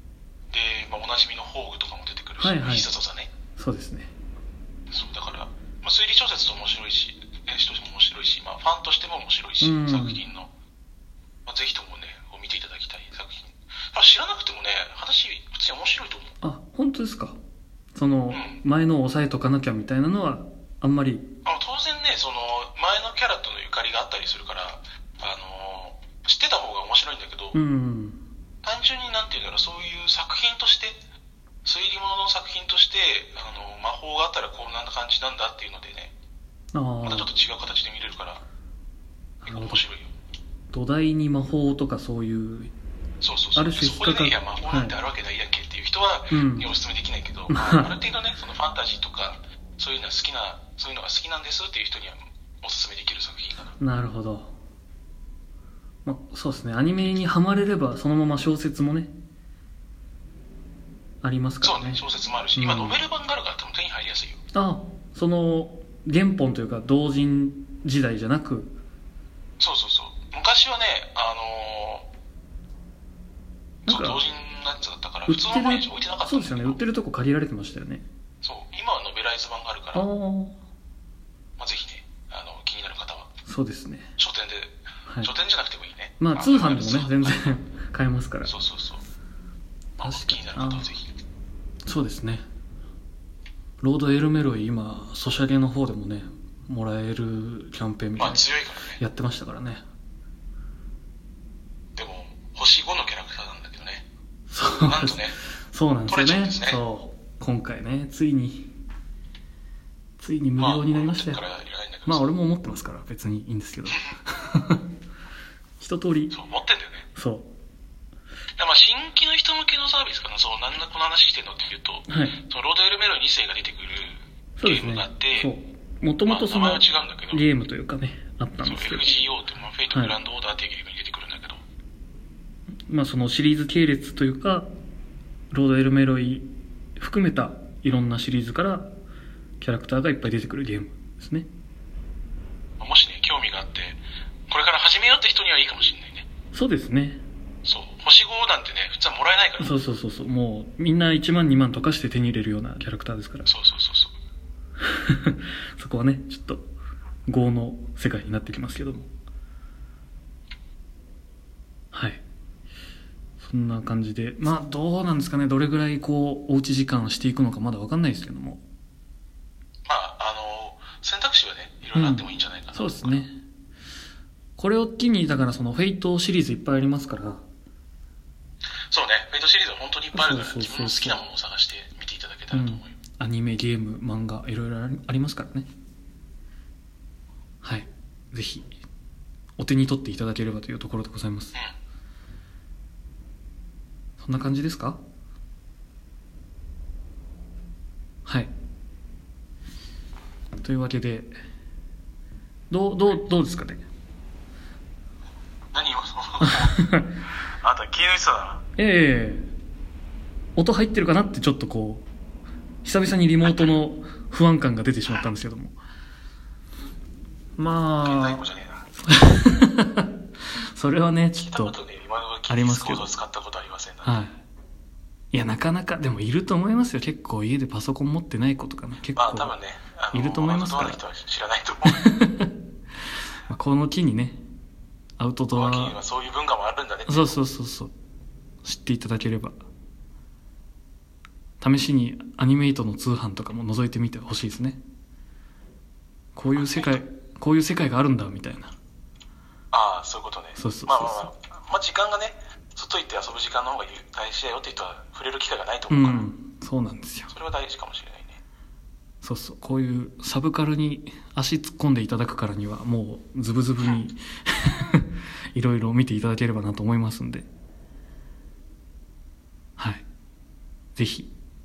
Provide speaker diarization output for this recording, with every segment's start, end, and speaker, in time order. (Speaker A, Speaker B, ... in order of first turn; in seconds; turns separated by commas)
Speaker A: 0.5-3.3, Speaker B: 2.4-2.9, Speaker B: 3.6-4.1, Speaker A: 4.9-10.5, Speaker B: 9.6-10.2, Speaker A: 11.4-16.4, Speaker B: 16.4-17.4, Speaker B: 17.9-21.2, Speaker A: 18.3-18.6, Speaker A: 21.4-27.6, Speaker B: 27.5-28.2, Speaker A: 28.6-31.0, Speaker A: 31.6-36.1, Speaker B: 36.7-37.3, Speaker A: 37.0-38.4, Speaker B: 39.4-39.8, Speaker A: 39.5-40.1, Speaker B: 40.7-42.7, Speaker A: 43.2-53.8, Speaker B: 43.5-44.9, Speaker B: 46.3-46.7, Speaker B: 47.5-47.9, Speaker B: 53.8-54.5, Speaker B: 56.0-59.1, Speaker B: 61.2-62.0, Speaker A: 61.6-64.4, Speaker B: 62.5-63.0, Speaker B: 64.5-68.7, Speaker A: 69.6-72.1, Speaker B: 73.8-74.2, Speaker A: 73.9-76.8, Speaker B: 75.3-78.0, Speaker A: 78.4-80.1, Speaker B: 79.9-80.6, Speaker A: 81.6-83.3, Speaker B: 83.5-84.1, Speaker A: 84.2-87.6, Speaker B: 86.2-88.5, Speaker A: 88.4-89.0, Speaker A: 90.0-91.1, Speaker B: 90.0-90.9, Speaker B: 91.8-92.4, Speaker B: 93.8-98.4, Speaker A: 98.2-99.0, Speaker B: 99.0-99.8, Speaker A: 102.0-104.0, Speaker B: 104.5-108.7, Speaker A: 104.8-105.3, Speaker A: 106.1-106.8, Speaker B: 110.2-111.4, Speaker A: 110.6-112.3, Speaker B: 112.0-114.8, Speaker B: 115.8-116.3, Speaker A: 116.3-117.1, Speaker B: 117.2-117.5, Speaker A: 118.6-125.5, Speaker B: 122.1-122.4, Speaker B: 124.6-129.2, Speaker A: 126.2-127.4, Speaker A: 128.6-131.6, Speaker B: 132.9-134.7, Speaker B: 135.5-136.4, Speaker B: 137.0-138.9, Speaker B: 139.6-141.5, Speaker A: 142.8-146.2, Speaker B: 146.5-147.2, Speaker A: 147.6-149.8, Speaker B: 149.6-153.5, Speaker A: 153.4-154.1, Speaker B: 154.8-156.6, Speaker B: 157.3-159.1, Speaker B: 161.9-162.2, Speaker B: 163.4-168.6, Speaker A: 169.8-173.2, Speaker B: 171.9-173.3, Speaker B: 174.6-177.4, Speaker A: 178.9-182.9, Speaker B: 180.1-181.2, Speaker B: 182.5-185.7, Speaker B: 187.6-188.7, Speaker B: 189.6-191.5, Speaker B: 194.2-195.0, Speaker B: 198.2-198.5, Speaker B: 200.6-201.3, Speaker B: 202.7-203.8, Speaker A: 205.7-206.8, Speaker B: 206.4-207.1, Speaker A: 207.6-208.6, Speaker B: 208.8-209.5, Speaker B: 210.6-212.0, Speaker B: 212.8-215.7, Speaker A: 213.4-213.7, Speaker B: 217.6-218.4, Speaker A: 218.0-218.9, Speaker B: 219.0-220.1, Speaker B: 220.6-221.8, Speaker A: 221.4-224.1, Speaker B: 222.5-223.1, Speaker B: 224.0-224.3, Speaker B: 225.3-229.5, Speaker A: 229.1-232.0, Speaker B: 230.1-231.0, Speaker B: 231.8-232.5, Speaker B: 233.5-234.4, Speaker B: 235.2-235.9, Speaker A: 235.5-237.4, Speaker B: 237.1-237.9, Speaker B: 238.6-239.6, Speaker B: 241.6-244.8, Speaker B: 246.3-248.7, Speaker A: 246.5-247.0, Speaker A: 249.7-256.3, Speaker B: 250.6-251.3, Speaker B: 255.9-257.3, Speaker A: 257.3-258.4, Speaker B: 259.2-267.5, Speaker B: 269.8-270.0, Speaker B: 270.9-271.3